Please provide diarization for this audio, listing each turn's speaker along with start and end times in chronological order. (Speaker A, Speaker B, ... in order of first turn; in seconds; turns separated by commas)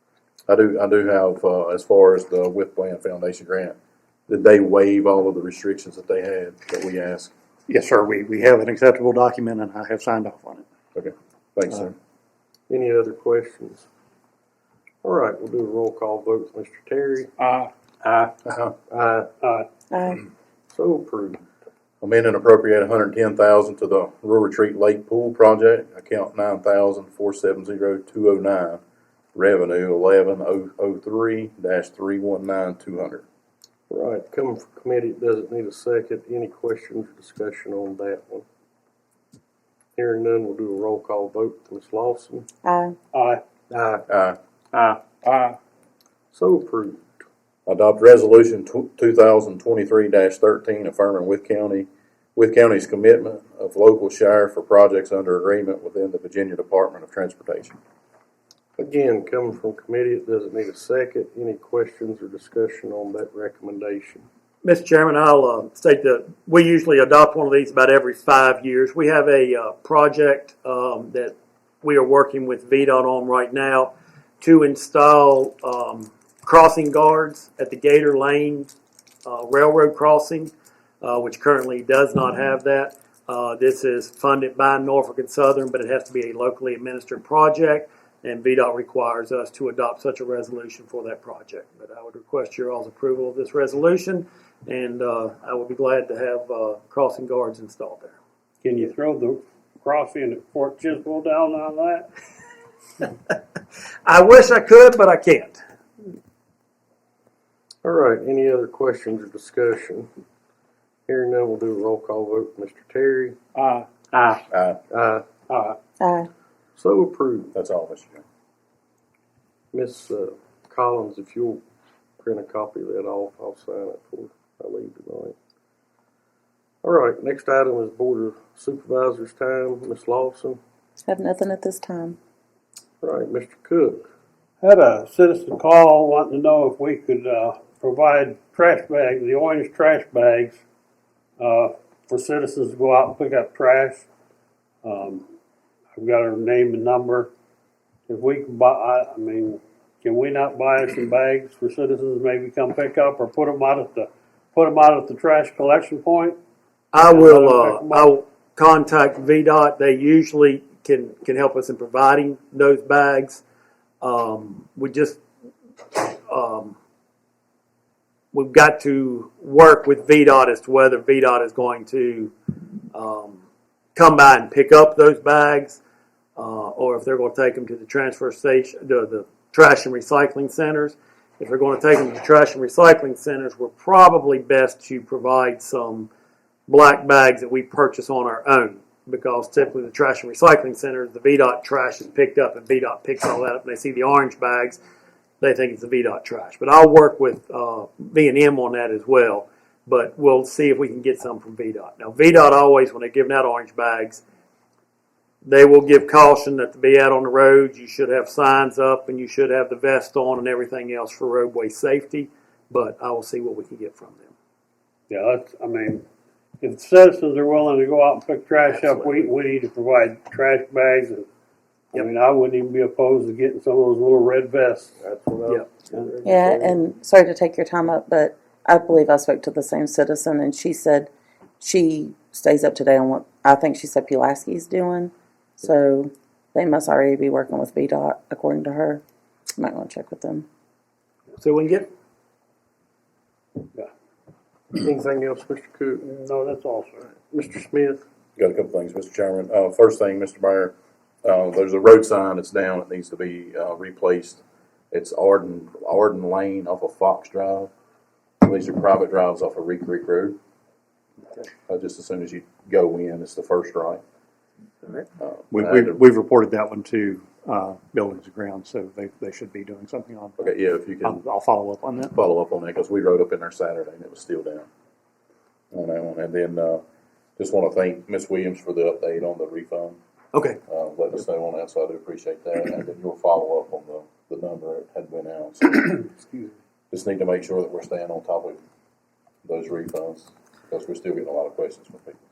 Speaker A: 0.5-3.8, Speaker A: 4.3-7.3, Speaker B: 7.7-10.7, Speaker A: 10.9-11.9, Speaker C: 12.7-13.9, Speaker C: 15.0-17.3, Speaker B: 17.4-18.4, Speaker A: 18.5-18.7, Speaker C: 18.9-19.3, Speaker D: 19.9-20.2, Speaker C: 20.7-21.4, Speaker A: 22.0-28.8, Speaker A: 29.4-33.2, Speaker C: 33.9-38.5, Speaker C: 40.0-42.5, Speaker D: 42.6-43.0, Speaker E: 43.1-43.4, Speaker C: 43.7-44.1, Speaker A: 44.1-44.4, Speaker B: 44.7-45.6, Speaker C: 46.3-47.0, Speaker A: 47.7-57.8, Speaker C: 58.8-64.2, Speaker F: 64.6-78.7, Speaker F: 79.2-98.2, Speaker E: 98.6-102.1, Speaker F: 104.0-105.6, Speaker C: 107.8-110.1, Speaker C: 111.1-113.4, Speaker B: 113.6-114.4, Speaker E: 114.1-114.4, Speaker A: 114.5-114.8, Speaker C: 114.9-115.3, Speaker E: 115.5-115.8, Speaker D: 116.0-116.3, Speaker C: 116.8-117.5, Speaker A: 117.5-118.2, Speaker C: 119.7-121.6, Speaker C: 122.2-125.4, Speaker C: 126.8-130.6, Speaker D: 131.1-132.2, Speaker C: 133.0-134.1, Speaker E: 134.6-140.6, Speaker E: 141.4-144.0, Speaker E: 144.8-145.2, Speaker E: 146.0-147.3, Speaker E: 148.1-156.4, Speaker F: 156.9-163.4, Speaker E: 157.1-158.1, Speaker F: 164.0-165.2, Speaker F: 165.9-166.8, Speaker F: 168.3-172.3, Speaker F: 172.9-173.4, Speaker F: 174.0-175.8, Speaker F: 176.4-186.1, Speaker F: 186.7-194.8, Speaker F: 195.4-204.2, Speaker F: 205.4-214.3, Speaker E: 215.1-216.1, Speaker E: 216.6-221.3, Speaker C: 218.7-219.3, Speaker E: 221.9-224.9, Speaker C: 225.0-226.8, Speaker D: 226.2-231.1, Speaker D: 231.6-239.0, Speaker D: 239.6-240.5, Speaker F: 241.4-241.9, Speaker C: 244.7-246.1, Speaker E: 246.0-247.1, Speaker C: 247.3-248.1, Speaker A: 248.4-257.7, Speaker A: 258.4-260.4, Speaker A: 261.7-264.0, Speaker A: 265.2-266.0, Speaker B: 265.5-270.4, Speaker A: 270.4-271.2, Speaker B: 271.0-272.1, Speaker A: 272.1-274.7, Speaker A: 275.7-276.8, Speaker A: 277.4-280.0, Speaker F: 280.3-280.6, Speaker A: 280.7-286.1, Speaker A: 286.9-288.6, Speaker A: 289.5-292.2